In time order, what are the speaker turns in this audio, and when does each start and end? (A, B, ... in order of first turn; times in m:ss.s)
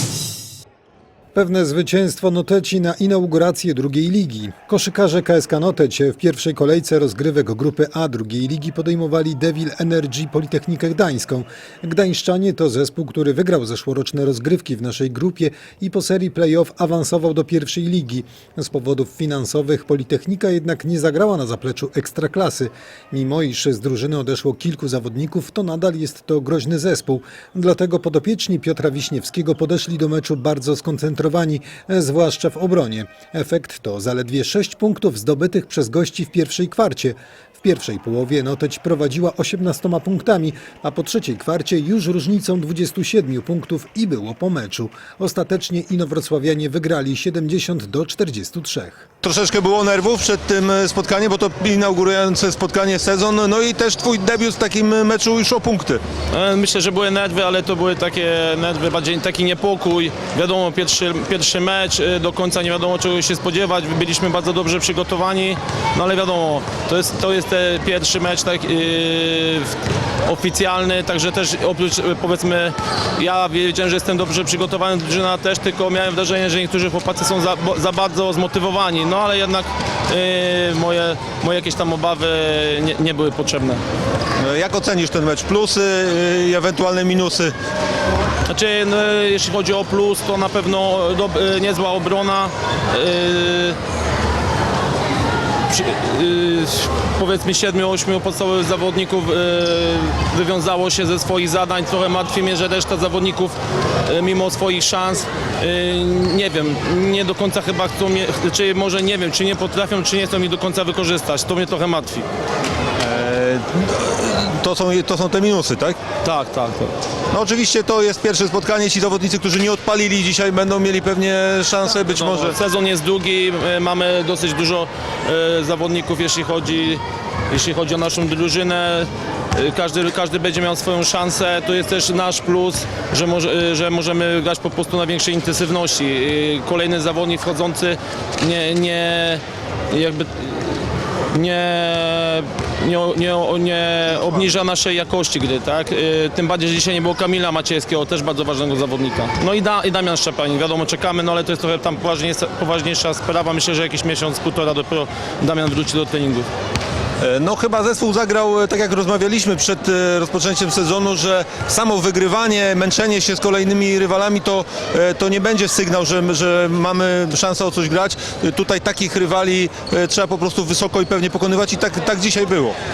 0:01.4-0:49.1 A
0:49.2-0:56.0 B
0:56.3-1:09.7 C
1:10.3-1:23.8 C
1:24.4-1:27.5 B
1:28.5-1:33.8 C
1:35.7-1:43.6 C
1:44.1-1:52.3 C
1:53.0-1:56.0 B
1:56.2-1:56.9 C
1:57.3-2:02.6 B
2:01.9-2:20.6 C
2:21.3-2:36.5 C
2:37.2-2:52.8 B